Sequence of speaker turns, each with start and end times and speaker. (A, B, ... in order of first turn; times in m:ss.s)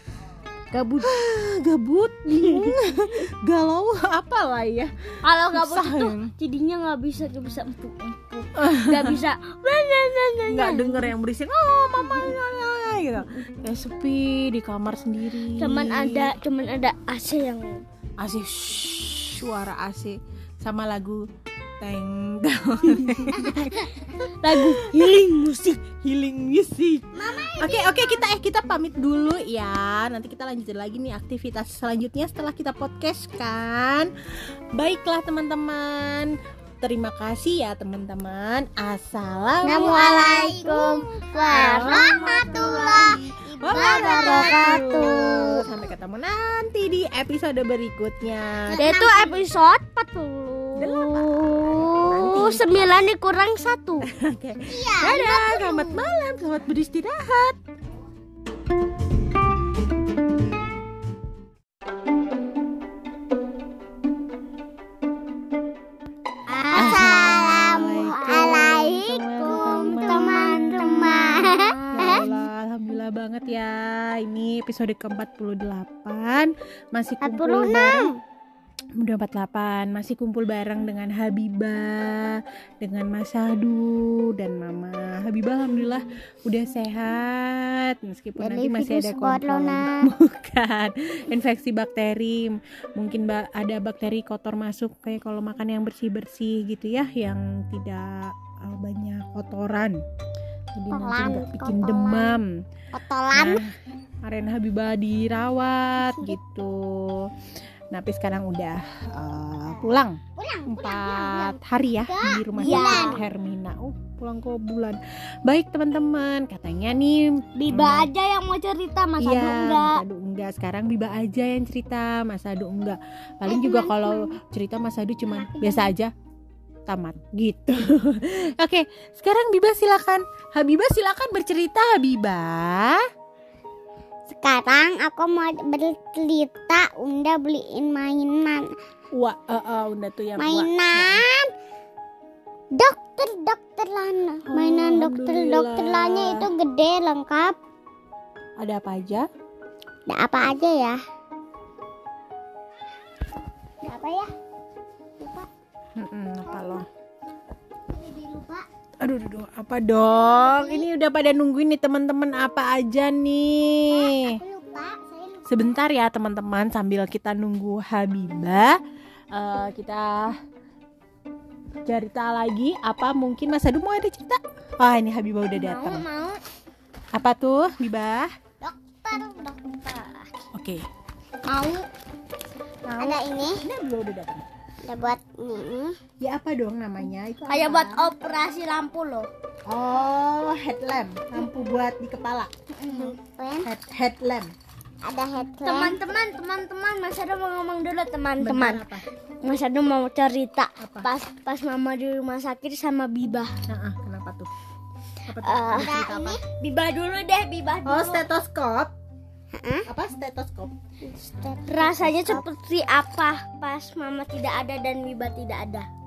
0:00.7-0:06.3 A
0:02.4-0:02.8 B
0:05.2-0:11.1 B
0:08.6-0:09.2 A
0:10.5-0:16.3 A
0:15.6-0:17.8 B
0:18.2-0:21.2 A
0:21.8-0:23.9 A
0:23.0-0:23.4 B
0:23.4-0:23.8 C
0:24.3-0:25.8 B
0:24.4-0:25.2 A
0:26.0-0:34.1 A
0:27.1-0:28.2 C
0:34.7-0:40.6 A
0:39.6-0:45.5 C
0:39.7-0:43.1 B
0:41.5-0:48.8 A
0:43.7-0:45.6 B
0:48.7-0:49.4 C
0:48.8-0:54.1 B
0:50.8-0:51.3 A
0:52.0-0:53.0 A
0:54.0-0:57.6 A
0:54.7-0:56.0 C
1:06.5-1:12.2 C
1:06.7-1:18.1 A
1:17.2-1:18.2 C
1:19.0-1:40.0 A
1:28.4-1:30.1 C
1:40.8-1:42.5 A
1:40.9-1:42.4 C
1:42.9-1:43.6 C
1:43.3-1:43.7 A
1:44.2-1:47.3 A
1:47.9-1:58.1 A
1:50.4-1:53.2 C
1:52.6-1:53.2 B
1:57.6-2:00.0 B
1:59.2-2:06.1 A
2:03.5-2:04.3 C
2:05.2-2:05.9 C
2:06.9-2:13.0 A
2:14.3-2:18.7 C
2:19.1-2:21.2 A
2:20.4-2:21.5 C
2:22.7-2:27.6 C
2:24.5-2:26.5 A
2:28.6-2:29.3 A
2:30.1-2:31.0 C
2:33.8-2:34.3 C
2:35.2-2:35.5 C
2:36.0-2:36.8 A
2:37.9-2:38.6 C
2:39.0-2:44.4 A
2:40.2-2:40.9 C
2:43.9-2:45.5 C
2:45.5-2:48.8 A
2:49.3-2:50.4 A
2:51.8-2:56.0 A
2:55.5-2:56.4 B
2:57.1-2:58.3 A
2:58.6-3:00.3 C
3:00.5-3:00.8 A
3:01.5-3:01.8 B
3:02.9-3:04.4 A
3:03.0-3:03.6 C
3:04.8-3:06.0 C
3:06.2-3:08.0 A
3:07.5-3:09.3 B
3:09.7-3:13.1 A
3:12.8-3:13.7 C
3:13.6-3:14.5 A
3:15.0-3:16.0 C
3:15.6-3:18.9 B
3:18.4-3:19.0 A
3:19.4-3:23.5 B
3:20.8-3:21.1 A
3:23.7-3:24.5 A
3:25.3-3:26.4 A
3:25.4-3:28.2 B
3:25.8-3:26.4 C
3:27.8-3:28.9 A
3:29.5-3:29.9 C
3:29.9-3:30.7 A
3:31.0-3:32.4 C
3:31.7-3:35.9 B